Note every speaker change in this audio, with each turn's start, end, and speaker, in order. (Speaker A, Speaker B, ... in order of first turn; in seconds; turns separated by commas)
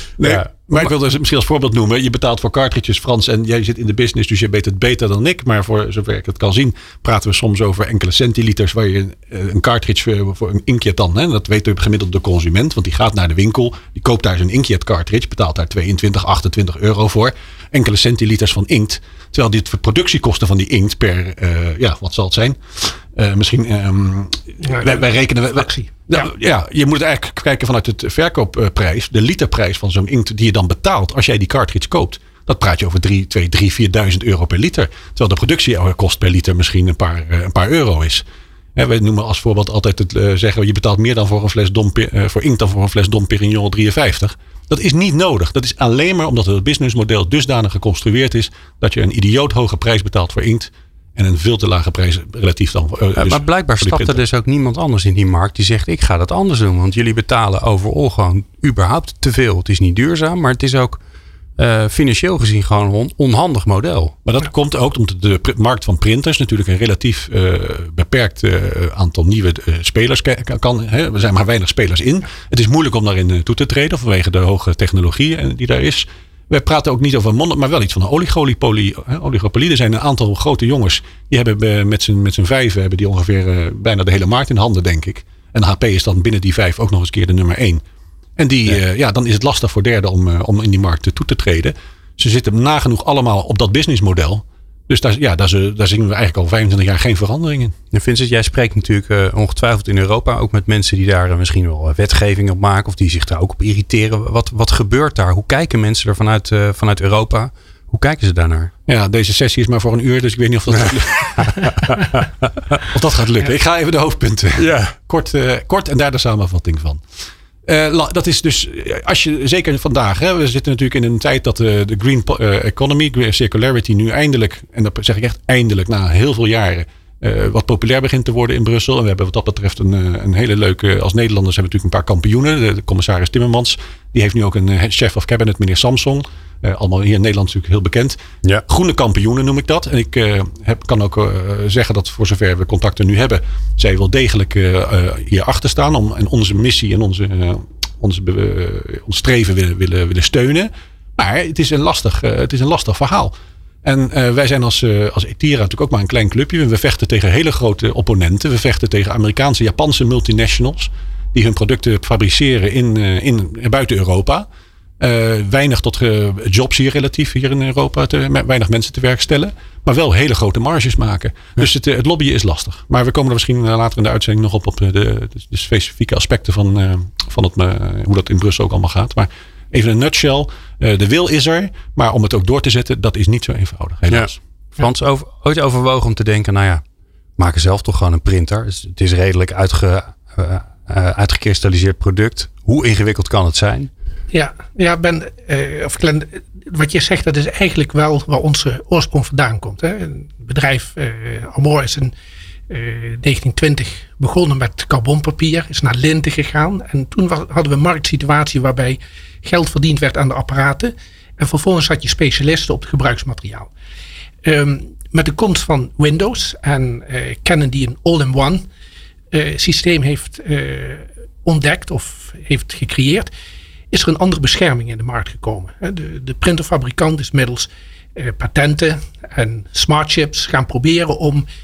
Speaker A: 0.2-38.2, Speaker B: 0.2-0.8, Speaker C: 24.6-26.2, Speaker A: 38.7-54.2, Speaker B: 53.1-61.0, Speaker B: 61.6-64.2, Speaker A: 64.2-87.8, Speaker A: 88.4-97.7, Speaker B: 97.9-108.7, Speaker A: 108.9-112.0, Speaker B: 111.4-112.0, Speaker A: 112.9-117.0, Speaker B: 114.6-114.9, Speaker A: 117.6-153.3, Speaker A: 153.8-164.4, Speaker A: 165.0-184.4, Speaker B: 184.1-186.8, Speaker B: 187.4-193.9, Speaker C: 194.3-202.1, Speaker C: 202.7-213.7, Speaker C: 214.4-218.7, Speaker C: 219.3-223.3, Speaker C: 223.9-231.4